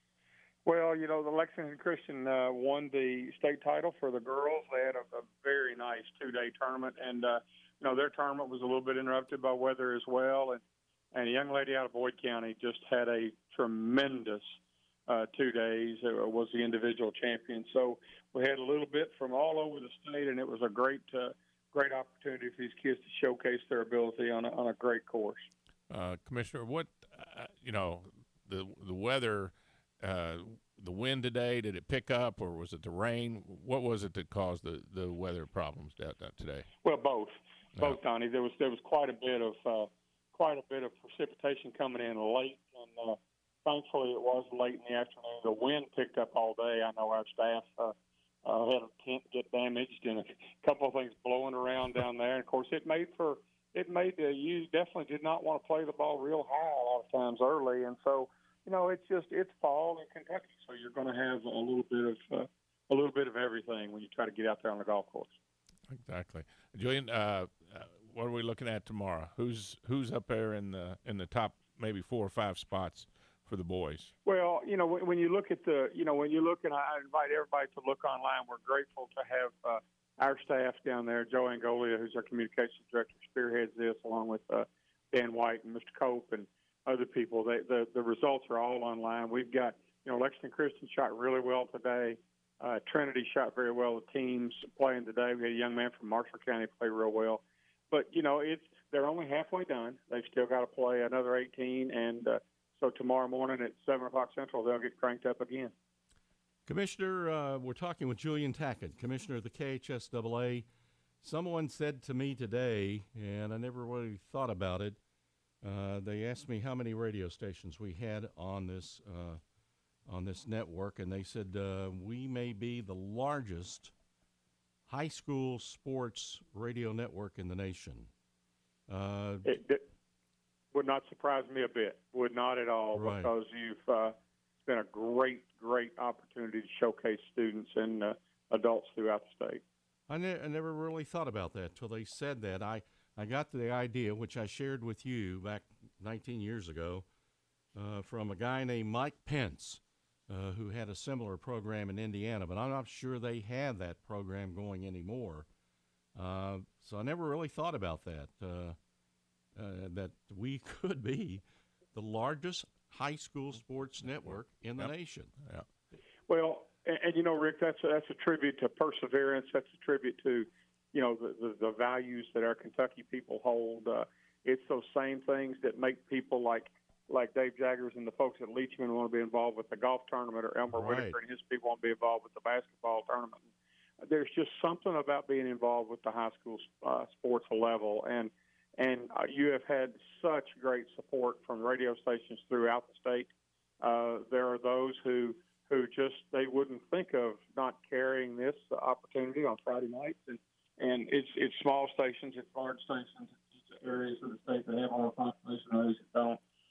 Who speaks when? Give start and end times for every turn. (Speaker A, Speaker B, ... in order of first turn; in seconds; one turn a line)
Speaker A: 0.6-10.6
Speaker A: 11.1-14.5
Speaker A: 15.1-25.4
Speaker B: 25.9-36.7
Speaker A: 36.8-65.3
Speaker B: 65.9-74.1
Speaker A: 74.2-105.7
Speaker C: 106.7-110.7
Speaker C: 111.2-115.0
Speaker C: 115.6-119.4
Speaker C: 120.1-123.9
Speaker C: 124.9-128.1
Speaker C: 128.9-129.5
Speaker A: 129.4-129.8
Speaker A: 130.7-134.1
Speaker C: 132.9-133.3
Speaker A: 134.7-139.6
Speaker C: 140.1-147.1
Speaker C: 147.7-155.5
Speaker C: 156.2-158.8
Speaker C: 159.5-161.4
Speaker C: 161.9-165.3
Speaker B: 164.0-164.9
Speaker A: 166.3-183.4
Speaker C: 180.7-181.2
Speaker A: 184.0-193.3
Speaker A: 193.8-206.4